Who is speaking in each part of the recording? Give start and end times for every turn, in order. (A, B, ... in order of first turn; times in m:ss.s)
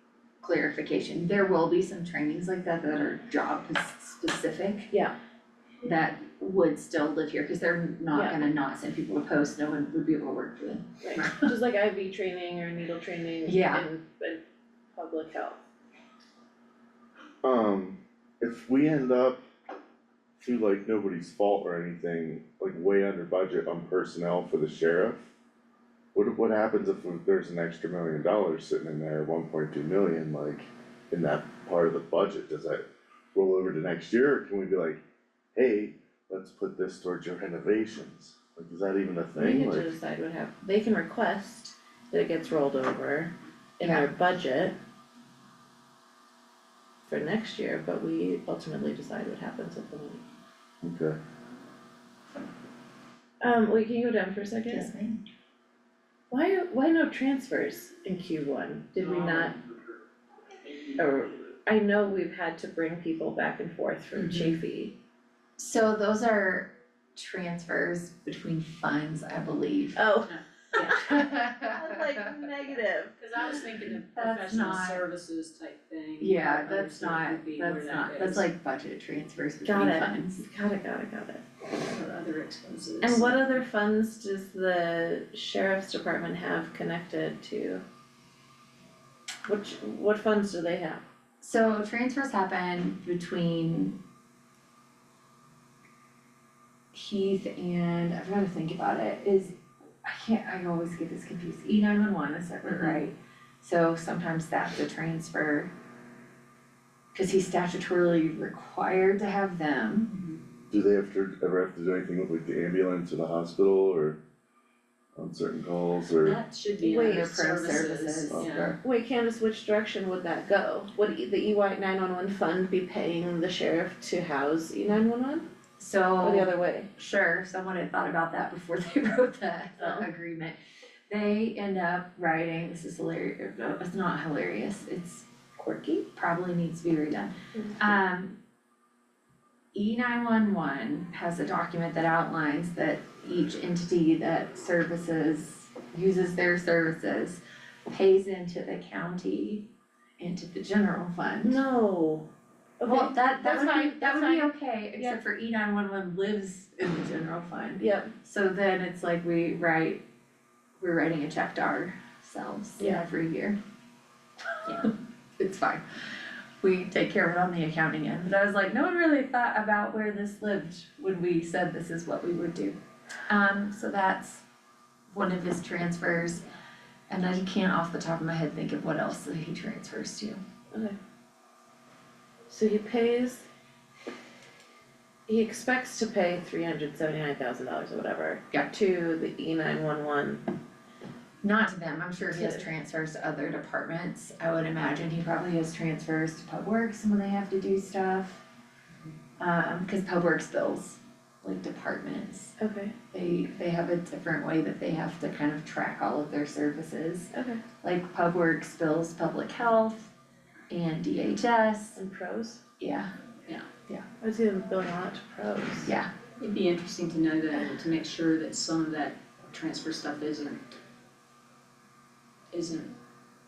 0:00.4-0:04.9 A
0:05.8-0:11.5 A
0:08.1-0:08.4 B
0:11.0-0:14.4 B
0:13.5-0:13.8 A
0:14.9-0:15.6 B
0:17.4-0:19.4 C
0:20.4-0:25.3 C
0:26.2-0:32.8 C
0:33.3-0:35.0 C
0:35.6-0:40.0 C
0:39.4-0:44.7 B
0:47.1-0:50.2 B
0:50.8-0:51.2 C
0:53.4-0:54.9 B
0:54.7-0:55.2 A
0:56.3-0:59.6 B
1:01.0-1:05.0 B
1:05.6-1:10.0 A
1:10.0-1:10.3 B
1:10.3-1:11.0 D
1:10.7-1:12.4 A
1:10.8-1:13.2 B
1:13.2-1:18.5 D
1:14.2-1:15.0 A
1:16.2-1:20.4 A
1:19.6-1:21.4 B
1:21.8-1:23.4 D
1:23.0-1:27.8 B
1:29.5-1:31.0 B
1:31.4-1:34.0 A
1:36.9-1:45.7 A
1:42.7-1:43.0 D
1:47.1-1:50.1 A
1:50.1-1:50.4 D
1:50.7-1:54.2 C
1:55.2-1:56.4 C
1:56.2-1:58.8 D
1:56.8-2:05.5 B
1:57.0-1:58.8 A
2:05.8-2:10.6 A
2:06.2-2:06.9 B
2:09.8-2:10.1 B
2:11.1-2:15.3 A
2:15.6-2:16.0 B
2:16.0-2:18.4 A
2:19.7-2:31.6 A
2:31.4-2:32.3 B
2:32.8-2:35.2 B
2:32.9-2:40.0 A
2:37.8-2:38.1 B
2:40.8-2:43.6 A
2:42.8-2:43.0 B
2:45.4-2:45.8 A
2:46.6-2:52.8 A
2:53.3-2:54.4 A
2:55.1-2:56.4 A
2:57.1-3:00.4 A
3:00.7-3:01.0 B
3:02.5-3:03.5 B
3:05.3-3:10.4 B
3:11.4-3:18.4 A
3:12.3-3:12.7 B
3:19.4-3:22.5 A
3:22.6-3:23.0 B
3:23.1-3:30.1 A
3:27.3-3:27.6 B
3:30.7-3:32.0 A
3:32.0-3:32.6 B
3:32.8-3:33.1 A
3:34.2-3:35.9 B
3:35.8-3:36.1 A
3:36.4-3:40.6 D
3:42.5-3:42.9 D